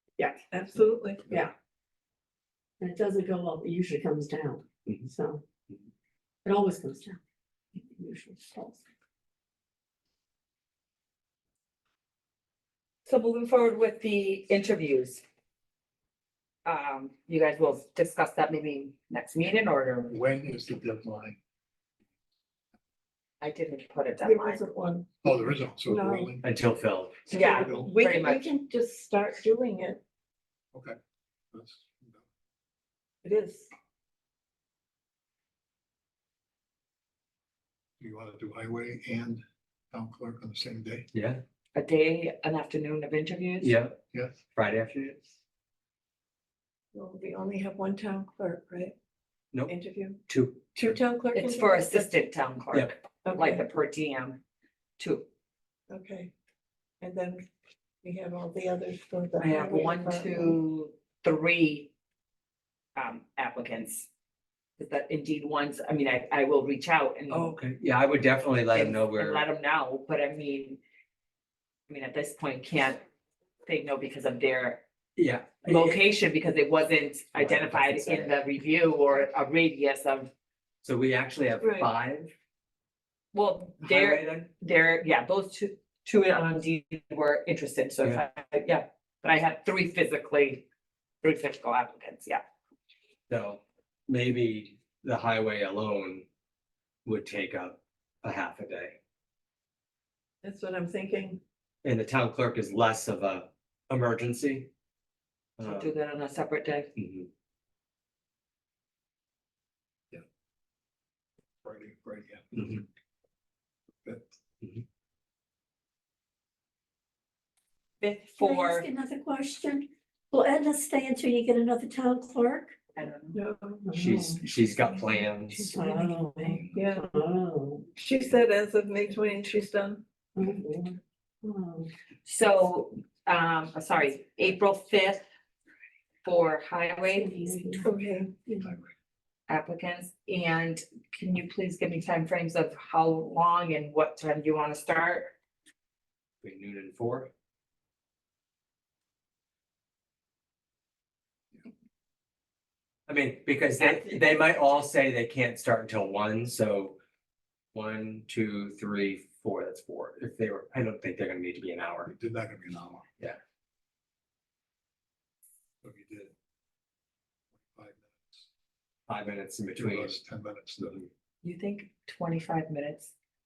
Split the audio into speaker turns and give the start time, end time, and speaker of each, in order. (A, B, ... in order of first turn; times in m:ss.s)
0:00.5-0:01.2 A
0:02.8-0:05.4 B
0:06.4-0:07.2 B
0:07.9-0:08.8 B
0:13.0-0:15.2 C
0:16.6-0:20.1 C
0:20.1-0:21.4 D
0:23.4-0:24.6 C
0:24.2-0:25.2 A
0:25.2-0:26.4 D
0:25.8-0:26.3 A
0:26.4-0:27.2 E
0:27.3-0:30.0 A
0:27.3-0:28.4 C
0:27.5-0:27.9 D
0:31.5-0:32.2 D
0:33.2-0:33.7 A
0:38.0-0:41.1 D
0:41.1-0:41.4 E
0:41.7-0:43.7 C
0:43.6-0:44.0 E
0:44.1-0:44.4 D
0:44.5-0:45.3 E
0:46.9-0:48.9 A
0:49.7-0:50.2 A
0:50.3-0:50.6 E
0:50.7-0:52.0 A
0:51.3-0:54.4 C
0:53.2-0:53.6 A
0:55.0-0:55.2 C
0:55.9-0:56.3 A
0:57.0-0:57.4 A
0:58.0-1:00.6 A
0:59.4-1:01.9 C
1:03.0-1:04.1 C
1:04.8-1:07.5 C
1:07.3-1:09.4 E
1:08.7-1:10.8 C
1:11.9-1:13.0 C
1:13.6-1:14.8 C
1:15.2-1:16.0 E
1:15.6-1:20.3 C
1:17.3-1:18.3 E
1:20.8-1:22.3 E
1:21.6-1:21.9 A
1:23.3-1:30.6 C
1:23.8-1:24.5 E
1:31.2-1:32.4 C
1:33.3-1:36.2 E
1:37.0-1:39.0 E
1:40.4-1:41.4 A
1:41.8-1:44.7 E
1:45.6-1:45.9 E
1:45.6-1:46.9 C
1:47.0-1:47.3 E
1:51.6-1:52.8 D
1:52.6-1:52.8 E
1:58.0-1:58.8 C
1:58.4-2:02.8 B
2:02.9-2:03.4 C
2:03.3-2:03.8 A
2:03.8-2:04.4 B
2:03.9-2:05.8 E
2:05.6-2:07.8 B
2:06.7-2:07.0 A
2:08.0-2:10.0 A
2:10.4-2:11.9 B
2:12.2-2:15.2 C
2:16.2-2:17.8 C
2:17.1-2:17.9 B
2:17.8-2:18.4 A
2:19.5-2:25.3 C
2:26.4-2:27.3 E
2:33.1-2:37.0 E
2:33.8-2:34.3 C
2:37.7-2:42.1 E
2:42.0-2:43.1 D
2:45.8-2:46.3 D
2:47.6-2:48.5 D
2:49.1-2:50.2 E
2:49.7-2:51.1 D
2:51.4-2:53.1 C